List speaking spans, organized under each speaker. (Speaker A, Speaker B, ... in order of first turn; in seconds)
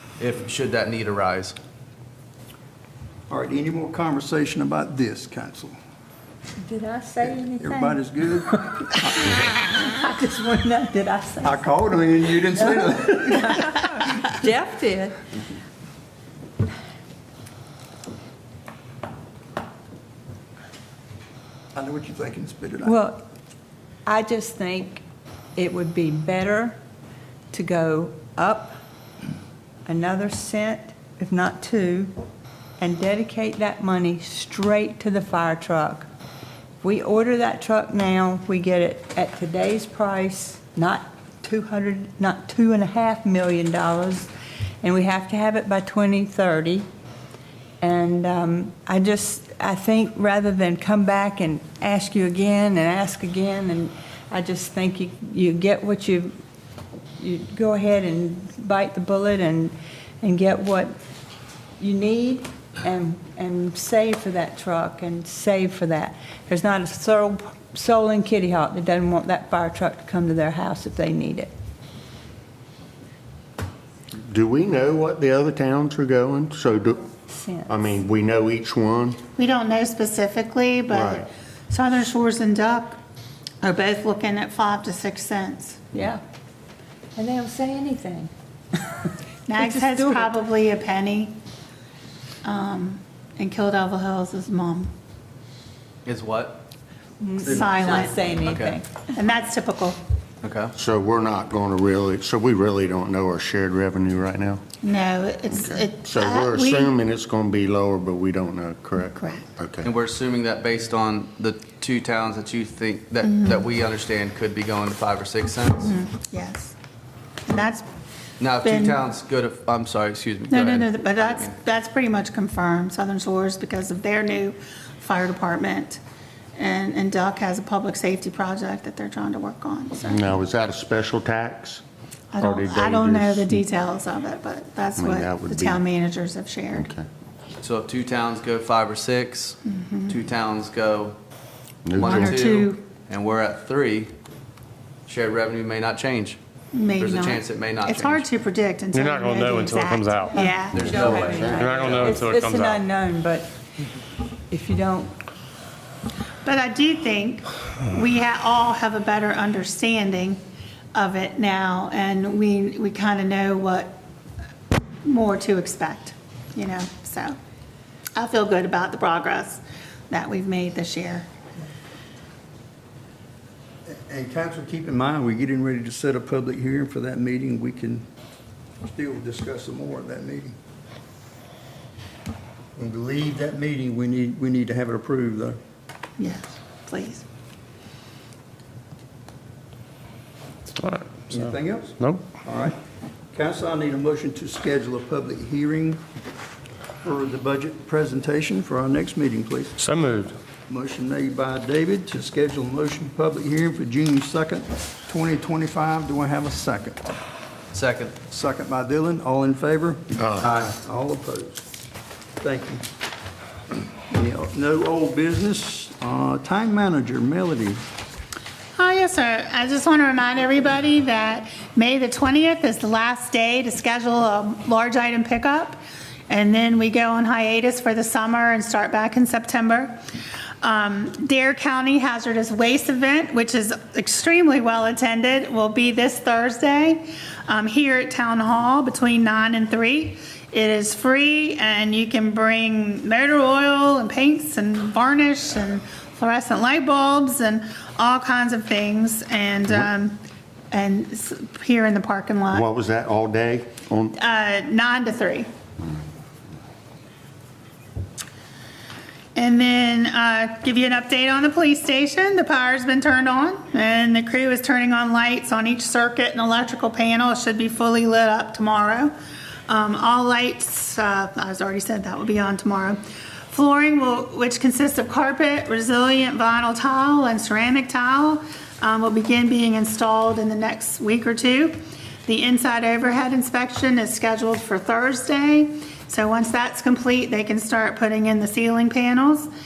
Speaker A: 0.2-1.6, 96.0-96.6, 97.4-98.8, 100.4-100.7, 109.8-115.9, 118.4-121.5, 137.6-141.2, 142.0-144.1, 145.1-146.4, 147.0-148.3, 150.7-152.2, 207.7-208.2
Speaker B: 3.3-5.7, 7.5-9.5, 11.4-13.8, 21.7-23.0, 173.8-178.0, 178.8-180.5, 182.8-185.6, 191.3-192.8, 193.3-196.0, 197.0-199.8, 200.7-207.0, 208.3-211.6, 212.4-212.8, 214.1-217.8
Speaker C: 6.6-11.6, 12.5-15.2, 22.8-23.2, 24.1-25.0, 25.6-26.8, 27.5-28.7, 29.9-32.1, 32.8-36.1, 36.8-44.3, 44.8-46.9, 47.8-56.3, 57.2-60.9, 61.8-71.5, 77.3-77.9, 85.9-86.2, 87.2-90.3, 97.2-99.0, 150.3-153.5, 154.5-155.1
Speaker D: 74.2-77.1, 77.7-79.2, 80.9-81.3, 100.7-104.6, 105.5-109.9, 130.0-131.8, 132.4-133.6, 135.0-135.8, 136.7-137.0, 141.8-142.4, 150.7-151.8, 210.2-210.4, 252.5-254.1
Speaker E: 79.3-83.0, 83.6-85.9, 89.5-91.3, 92.4-94.9, 97.4-98.2, 99.1-100.0, 104.8-106.9, 109.2-109.4, 113.2-113.6, 115.8-116.7, 117.5-117.9, 118.6-119.0, 120.5-126.0, 126.5-130.3, 132.3-136.9, 139.6-140.1, 142.0-142.8, 146.7-150.7, 156.4-160.4, 160.9-164.0, 165.0-167.3, 168.2-171.2, 186.2-187.2, 218.8-229.9, 230.6-250.2, 250.7-252.6, 254.2-255.5, 259.4-269.1, 269.7-273.0, 273.5-289.5
Speaker F: 148.9-150.4, 151.5-152.8, 190.8-192.3, 199.8-200.3